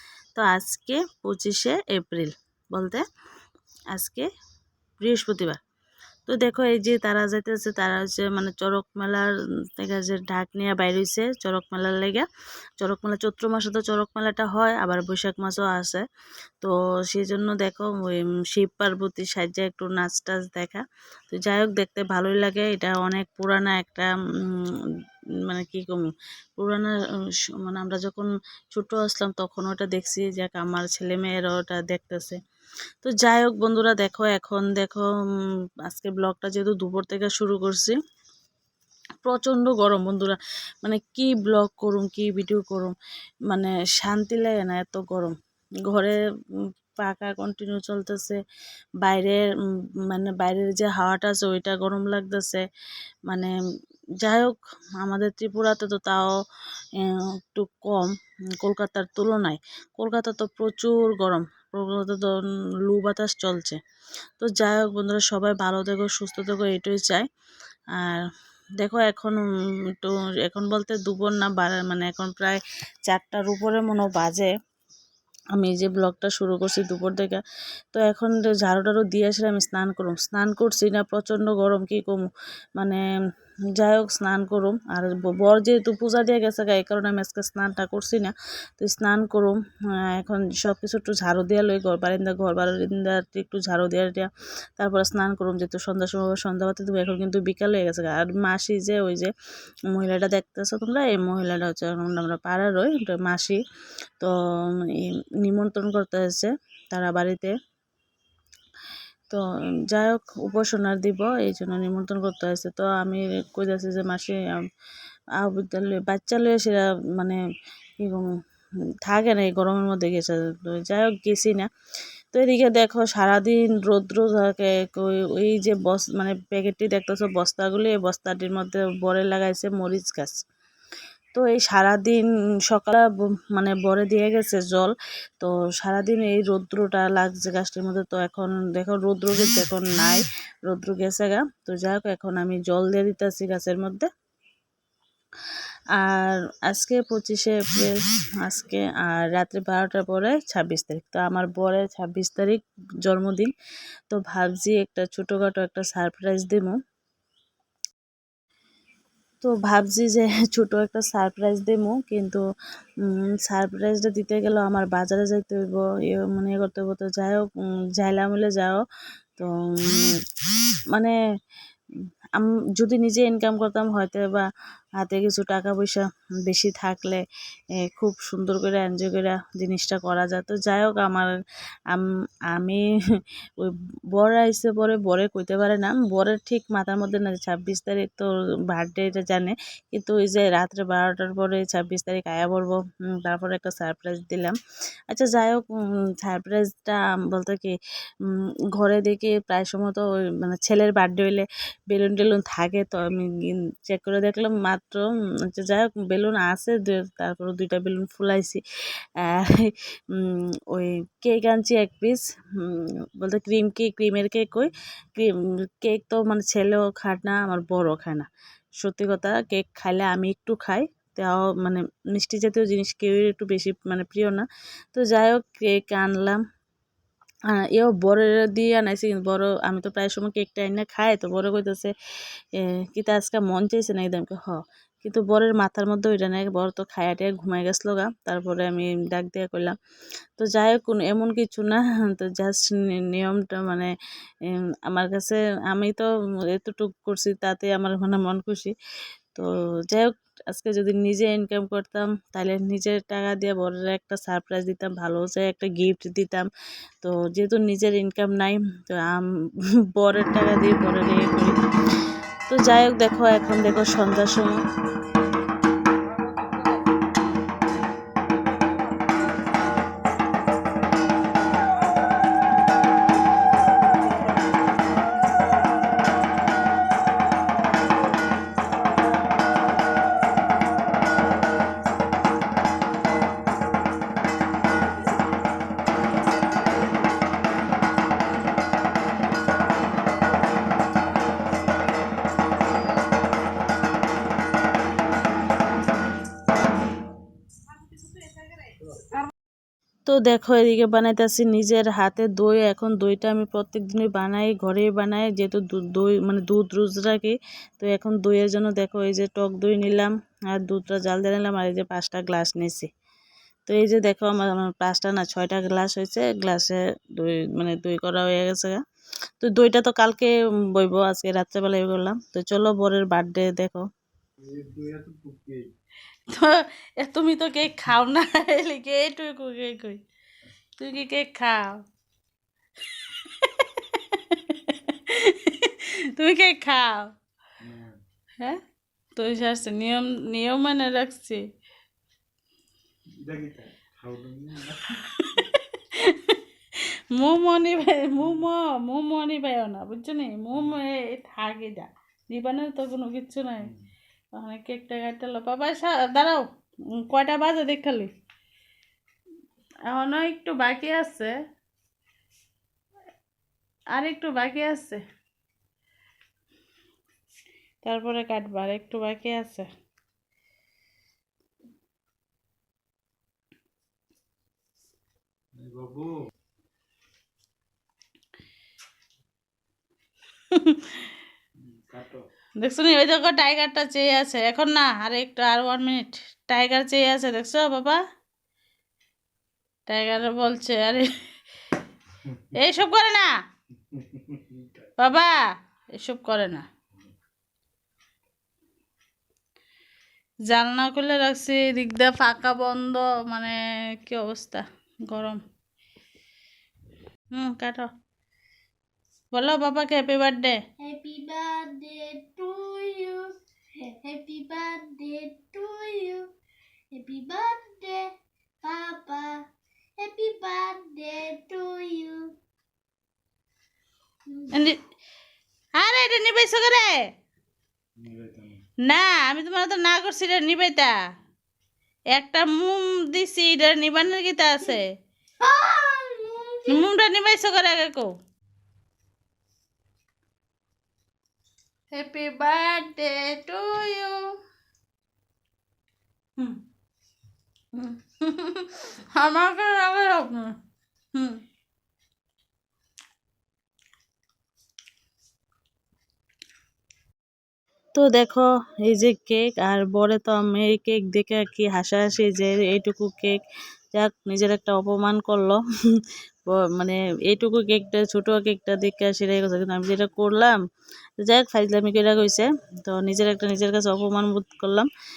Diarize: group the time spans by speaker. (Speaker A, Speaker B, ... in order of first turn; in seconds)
Speaker A: 0.3-3.0, 3.9-4.3, 5.0-5.6, 6.3-12.3, 12.8-16.1, 16.6-24.8, 25.5-26.9, 27.6-32.4, 33.0-35.1, 35.9-38.0, 39.2-43.0, 43.5-45.4, 45.9-46.2, 47.0-48.4, 49.0-49.5, 50.1-52.6, 54.2-56.3, 57.0-63.8, 64.4-67.3, 67.9-68.2, 68.8-74.5, 75.5-77.4, 77.9-82.3, 82.8-83.0, 83.8-89.6, 90.1-99.3, 99.9-103.6, 104.2-107.5, 109.3-114.4, 115.4-117.4, 118.0-118.3, 119.0-121.7, 122.3-130.4, 131.3-144.1, 145.9-153.5, 154.1-156.8, 159.4-162.4, 163.1-167.5, 168.0-168.8, 169.4-170.1, 172.4-174.5, 175.0-177.2, 177.9-181.3, 181.9-182.8, 183.6-194.6, 195.1-208.6, 209.2-218.3, 218.8-226.4, 227.5-231.9, 232.6-239.8, 240.4-243.9, 244.5-248.7, 249.3-256.5, 257.0-259.2, 260.0-261.6, 262.5-264.6, 300.1-312.9, 313.7-318.8, 319.4-323.9, 326.3-330.0, 330.8-331.8, 333.2-337.1, 339.2-341.4, 345.2-346.4, 347.2-353.7, 354.4-356.4, 357.0-358.1, 359.9-361.3, 363.9-365.0, 367.9-369.7, 382.6-388.0, 389.9-391.1, 392.6-393.3, 395.0-395.4, 396.0-396.7, 400.5-405.4, 407.4-407.9, 409.3-410.6, 424.5-424.8, 425.8-427.0, 428.9-431.0, 432.1-434.8, 436.7-438.1, 441.9-444.2, 447.8-450.6, 451.1-451.4, 457.9-463.4, 463.9-465.6, 466.5-470.6, 471.2-474.9
Speaker B: 266.2-266.5, 324.4-325.7, 337.6-338.0, 343.2-345.0, 375.6-376.1, 381.7-382.2, 393.9-394.9, 428.0-428.6
Speaker C: 410.8-416.3, 416.9-418.1, 418.6-419.3, 420.0-422.2, 435.4-436.8